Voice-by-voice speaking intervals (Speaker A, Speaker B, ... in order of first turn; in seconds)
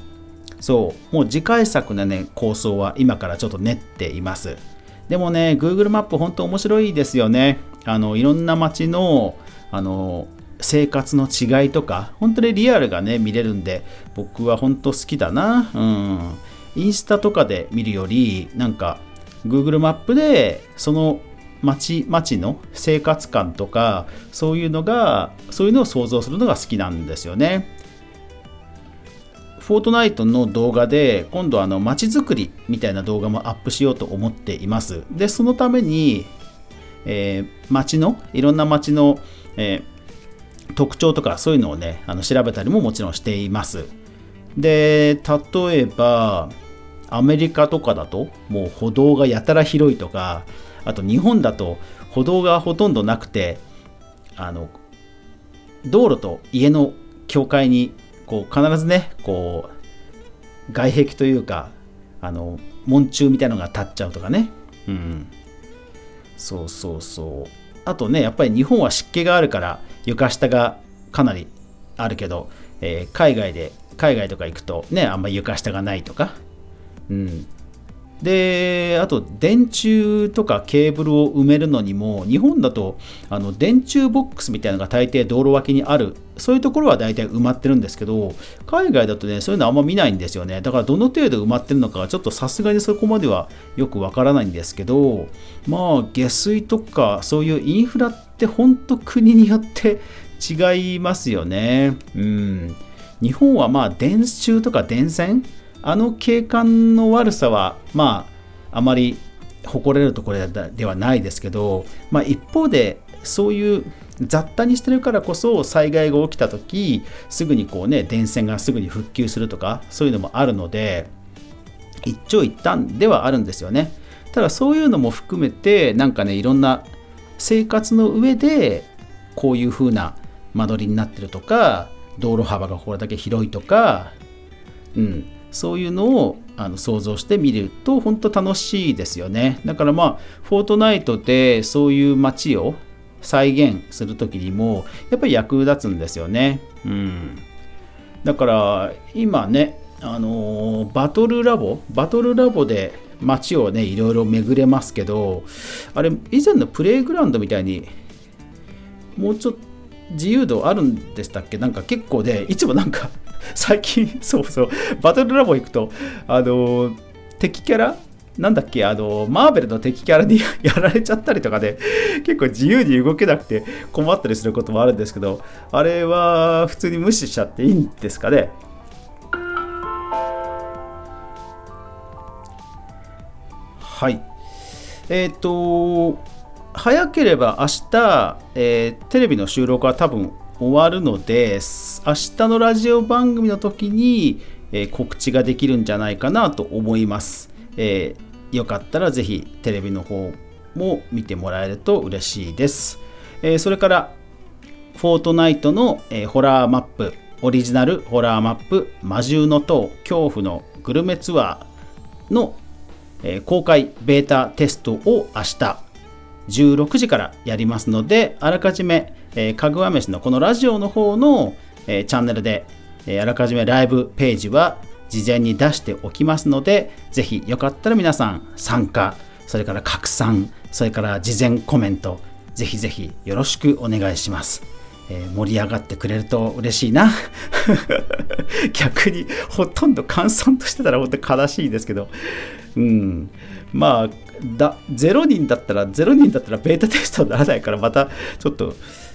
Speaker A: 0.6-27.7, 29.6-36.3, 37.0-39.9, 40.7-43.9, 44.5-46.5, 47.1-53.6, 54.4-54.7, 55.8-59.7, 60.7-65.3, 66.4-76.4, 77.1-77.5, 78.2-121.1, 122.0-134.1, 134.9-147.4, 148.2-157.9, 159.2-178.5, 183.8-184.2, 185.1-186.2, 186.7-204.2, 204.9-211.7, 212.3-212.6, 213.2-215.8, 216.5-248.8